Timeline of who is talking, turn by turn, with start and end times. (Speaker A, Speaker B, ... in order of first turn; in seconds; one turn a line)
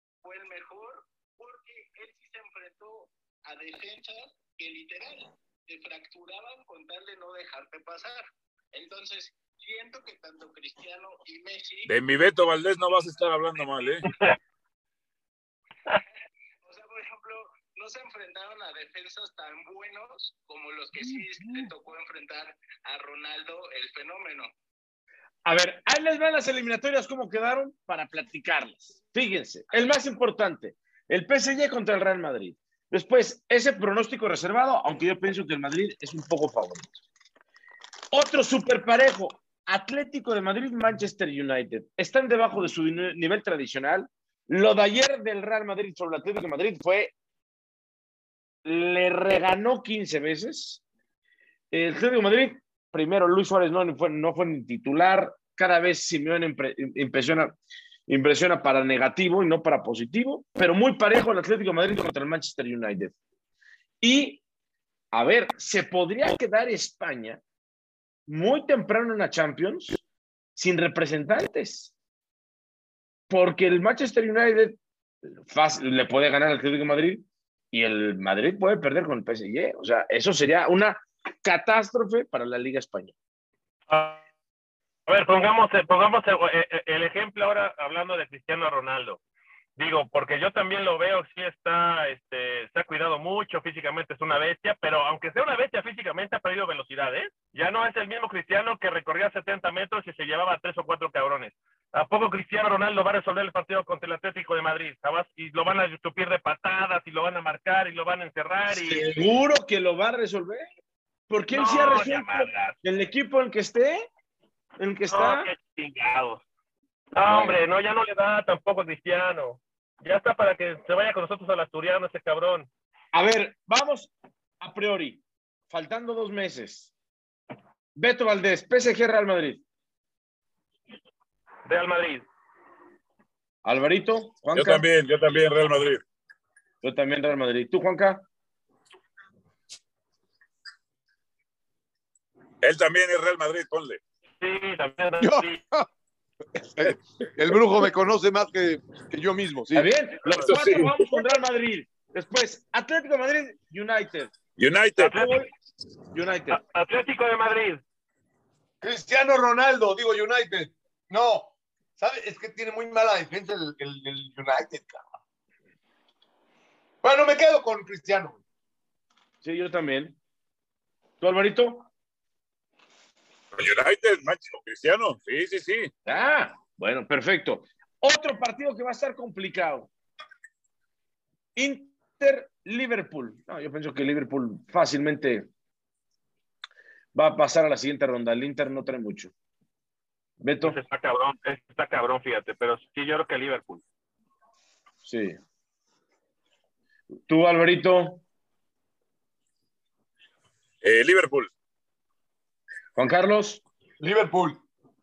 Speaker A: 0.2-11.9
Speaker B: 11.9-14.1
Speaker C: 14.0-14.4
Speaker A: 16.6-24.5
Speaker D: 25.4-37.0
Speaker D: 38.1-47.1
Speaker D: 48.6-50.8
Speaker D: 51.7-63.1
Speaker D: 64.0-64.4
Speaker D: 65.1-67.4
Speaker D: 68.3-70.0
Speaker D: 70.5-71.9
Speaker D: 73.3-83.1
Speaker C: 83.9-84.2
Speaker C: 85.1-89.2
Speaker C: 89.8-109.2
Speaker D: 108.7-110.7
Speaker D: 111.3-114.1
Speaker C: 111.5-112.8
Speaker D: 114.8-115.5
Speaker C: 115.1-116.4
Speaker C: 117.1-122.7
Speaker D: 117.3-117.6
Speaker D: 123.1-126.9
Speaker D: 128.0-129.6
Speaker C: 131.7-132.2
Speaker D: 133.6-134.8
Speaker B: 134.6-136.0
Speaker D: 136.8-138.2
Speaker B: 142.6-144.0
Speaker C: 144.4-145.6
Speaker E: 145.2-145.9
Speaker E: 146.6-149.9
Speaker D: 149.7-154.3
Speaker B: 150.3-151.1
Speaker B: 154.6-155.1
Speaker C: 155.0-155.4
Speaker D: 155.0-155.5
Speaker D: 156.1-156.6
Speaker C: 156.5-157.8
Speaker E: 158.8-165.0
Speaker E: 167.0-168.4
Speaker D: 169.4-170.2
Speaker D: 171.2-171.9
Speaker B: 173.5-175.9
Speaker D: 176.1-179.9
Speaker D: 181.6-185.5
Speaker D: 187.1-189.3
Speaker D: 190.4-190.8
Speaker C: 190.6-193.8
Speaker D: 195.0-195.4
Speaker D: 197.3-198.2
Speaker B: 200.8-201.5
Speaker D: 202.9-203.6
Speaker E: 204.0-204.6